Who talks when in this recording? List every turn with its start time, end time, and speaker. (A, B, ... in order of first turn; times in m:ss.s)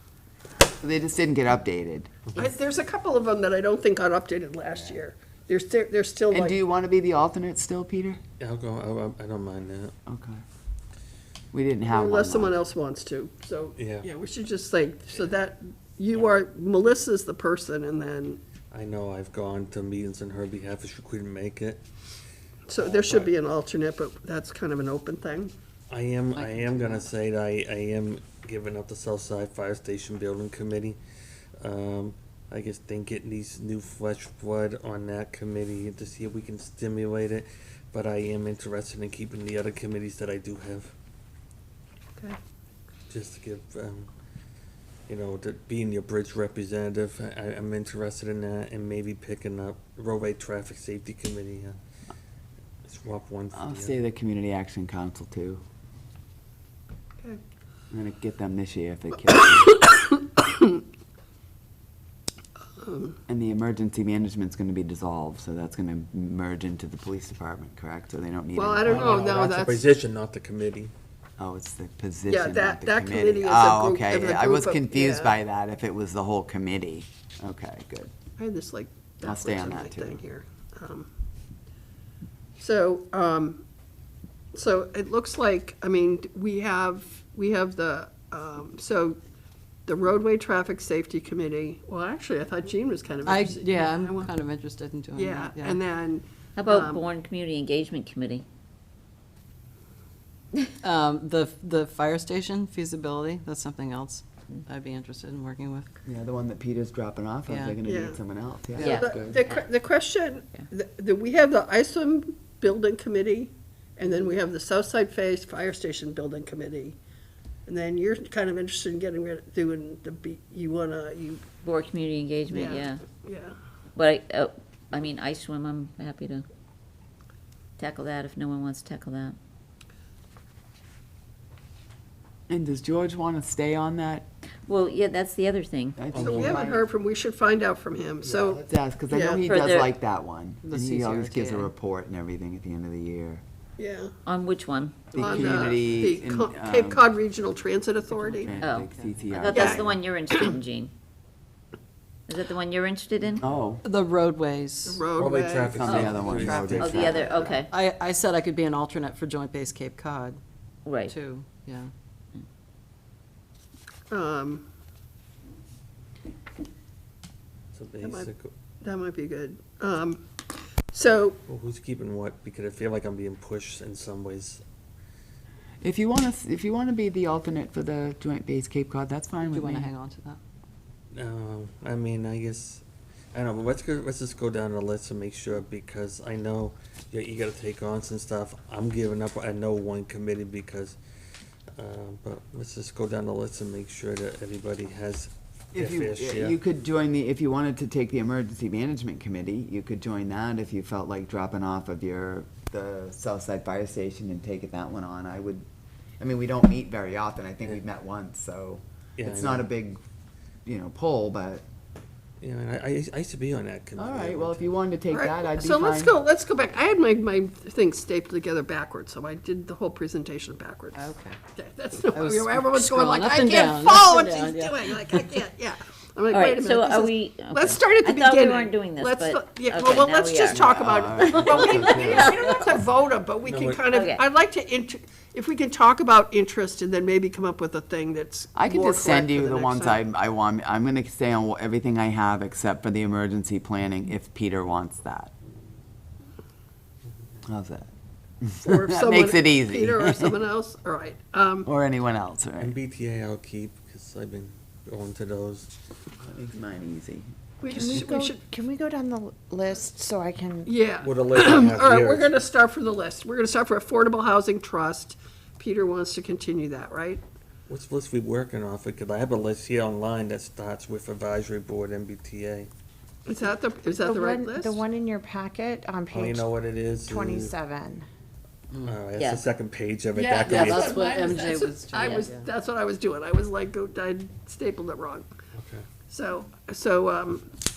0:00.8-0:02.2 A
0:02.4-0:06.6 B
0:06.3-0:08.2 A
0:08.4-0:09.9 C
0:10.1-0:10.4 A
0:11.5-0:12.6 A
0:11.9-0:18.4 B
0:13.8-0:14.1 C
0:18.7-0:21.8 C
0:22.7-0:25.5 B
0:22.8-0:23.3 C
0:25.9-0:31.0 C
0:26.4-0:27.1 D
0:31.6-0:40.9 C
0:43.1-0:44.1 C
0:45.1-0:51.8 C
0:52.8-0:54.0 C
0:53.5-0:55.6 A
0:57.9-0:59.8 A
0:59.7-1:00.7 B
1:02.8-1:03.2 B
1:03.3-1:09.2 A
1:08.6-1:09.9 B
1:08.8-1:10.9 C
1:11.4-1:18.1 A
1:12.3-1:15.3 B
1:18.4-1:21.1 B
1:19.2-1:20.2 A
1:22.6-1:23.6 B
1:24.5-1:29.2 B
1:29.9-1:34.3 B
1:33.2-1:35.8 D
1:35.2-1:37.0 B
1:36.6-1:38.4 E
1:40.8-1:45.9 D
1:46.0-1:49.4 A
1:47.5-1:47.8 D
1:47.8-1:48.2 B
1:48.8-1:49.7 E
1:48.8-1:49.1 D
1:48.8-1:57.0 B
1:57.7-2:01.4 B
2:01.6-2:03.0 E
2:02.5-2:03.5 B
2:04.0-2:06.4 E
2:07.8-2:09.4 E
2:12.5-2:14.3 A
2:14.7-2:16.0 E
2:16.0-2:16.9 A
2:16.1-2:16.7 C
2:16.2-2:19.4 B
2:18.2-2:23.4 A
2:19.4-2:19.9 E
2:20.6-2:21.7 D
2:23.8-2:24.1 B
2:24.3-2:25.7 E
2:25.1-2:27.0 A
2:25.2-2:28.6 B
2:28.1-2:29.3 D
2:28.4-2:29.9 A
2:28.6-2:30.9 E
2:29.5-2:30.5 B
2:32.3-2:33.4 E
2:33.4-2:33.8 A
2:33.8-2:35.1 D
2:34.9-2:36.0 B
2:35.2-2:37.1 C
2:35.8-2:37.3 A
2:35.8-2:36.1 E
2:36.0-2:40.4 D
2:36.8-2:37.7 E
2:37.1-2:37.5 B
2:40.9-2:41.1 E
2:41.0-2:41.9 D
2:44.1-2:44.6 B
2:47.7-2:48.5 C
2:48.0-2:48.3 B
2:48.8-2:51.4 B
2:51.5-2:54.6 C
2:55.8-2:59.9 A
2:59.4-3:00.4 D
3:01.2-3:11.0 C
3:11.8-3:16.6 C
3:15.7-3:25.6 A
3:26.2-3:30.0 A
3:29.2-3:29.7 C
3:30.6-3:31.6 A
3:32.4-3:34.7 C
3:34.0-3:36.2 A
3:35.1-3:41.0 B
3:41.0-3:41.4 D
3:41.5-4:00.0 B
3:42.1-3:45.4 D
3:46.3-3:50.6 E
3:50.6-3:52.4 A
3:51.8-3:52.4 D
3:53.4-3:53.9 C
3:53.9-3:54.2 E
3:58.6-4:05.3 A
4:07.4-4:07.9 A
4:08.4-4:10.4 A
4:08.6-4:11.7 B
4:11.6-4:12.8 A
4:12.6-4:15.7 C
4:16.2-4:17.3 A
4:17.6-4:18.4 B
4:17.7-4:20.7 F
4:20.7-4:27.2 B
4:21.0-4:22.3 C
4:27.7-4:32.7 C
4:33.3-4:34.8 B
4:34.0-4:36.5 F
4:36.1-4:37.5 C
4:37.1-4:38.1 F
4:38.7-4:39.0 D
4:38.8-4:41.0 C
4:39.2-4:39.4 E
4:40.1-4:45.3 B
4:40.4-4:42.5 D
4:45.6-4:45.8 C
4:46.1-4:47.5 B